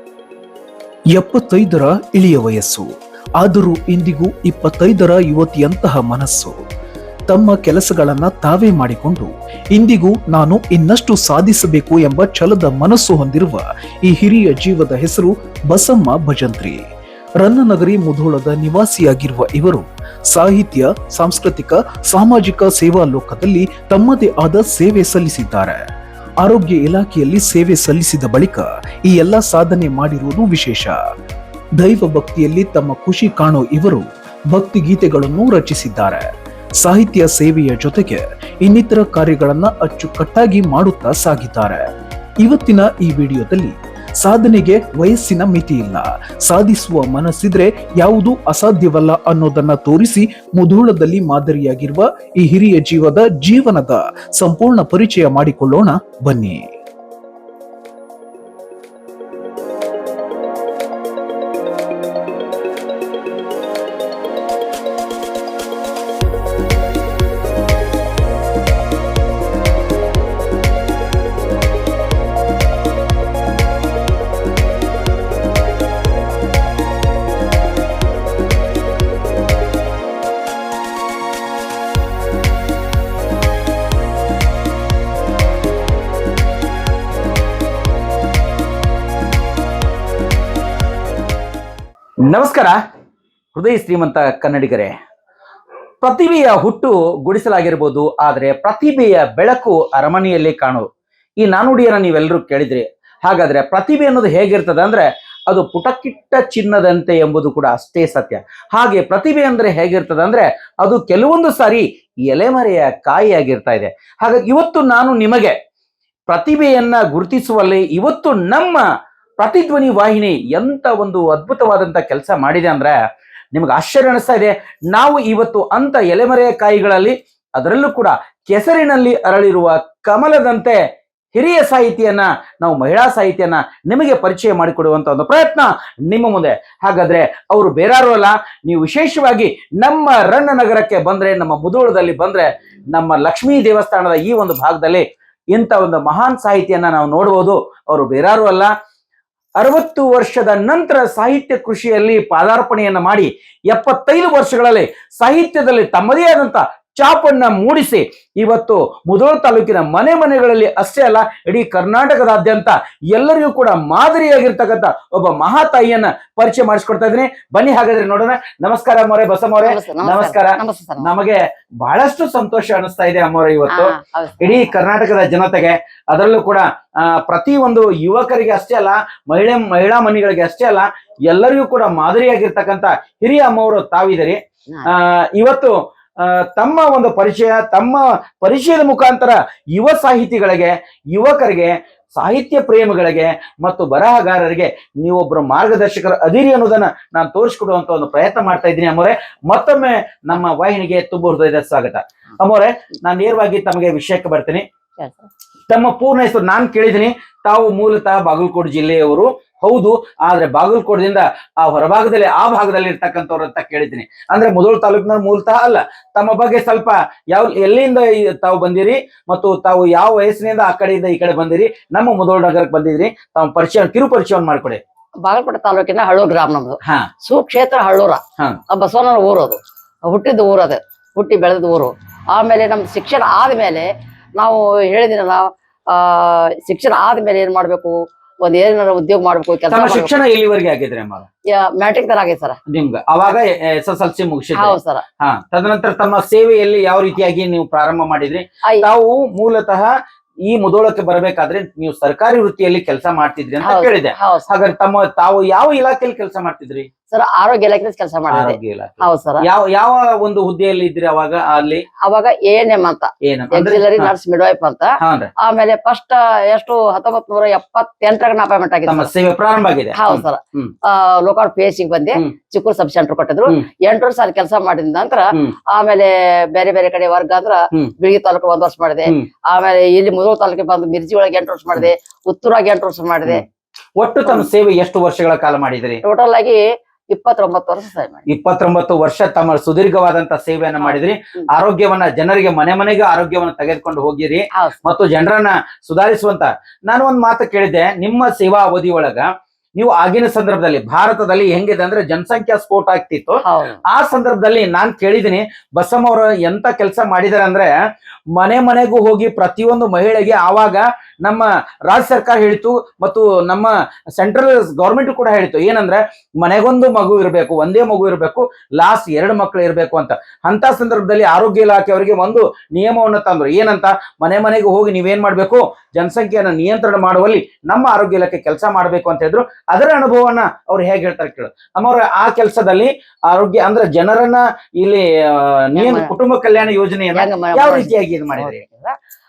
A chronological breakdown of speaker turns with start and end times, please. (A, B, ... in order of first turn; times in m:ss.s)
0:01.1-0:06.6 A
0:07.3-0:16.8 A
0:17.4-0:25.9 A
0:26.4-0:31.0 A
0:31.8-0:41.9 A
0:42.4-0:56.8 A
1:32.2-1:32.8 B
1:33.5-1:35.0 B
1:36.0-1:40.9 B
1:41.4-1:55.6 B
1:56.3-1:58.8 B
1:59.4-2:03.0 B
2:03.5-2:10.8 B
2:11.3-2:28.7 B
2:29.6-3:24.6 B
2:49.6-2:51.1 C
2:53.7-2:54.8 C
3:25.0-3:25.3 C
3:25.7-3:44.8 B
3:45.2-4:00.1 C
3:46.8-3:47.1 B
3:59.7-4:01.3 B
4:01.5-4:02.6 C
4:02.7-4:16.9 B
4:04.6-4:05.0 C
4:13.6-4:14.5 C
4:17.1-4:19.4 C
4:18.3-4:21.8 B
4:22.0-4:29.1 C
4:23.2-4:24.1 B
4:25.0-4:25.3 B
4:28.9-4:30.7 B
4:29.9-4:43.4 C
4:44.0-4:46.0 B
4:46.0-4:48.2 C
4:48.3-5:07.7 B
4:50.8-4:51.5 C
4:54.5-4:54.8 C
5:03.4-5:03.8 C
5:08.3-5:38.6 B
5:35.8-5:36.1 C
5:37.1-5:39.0 C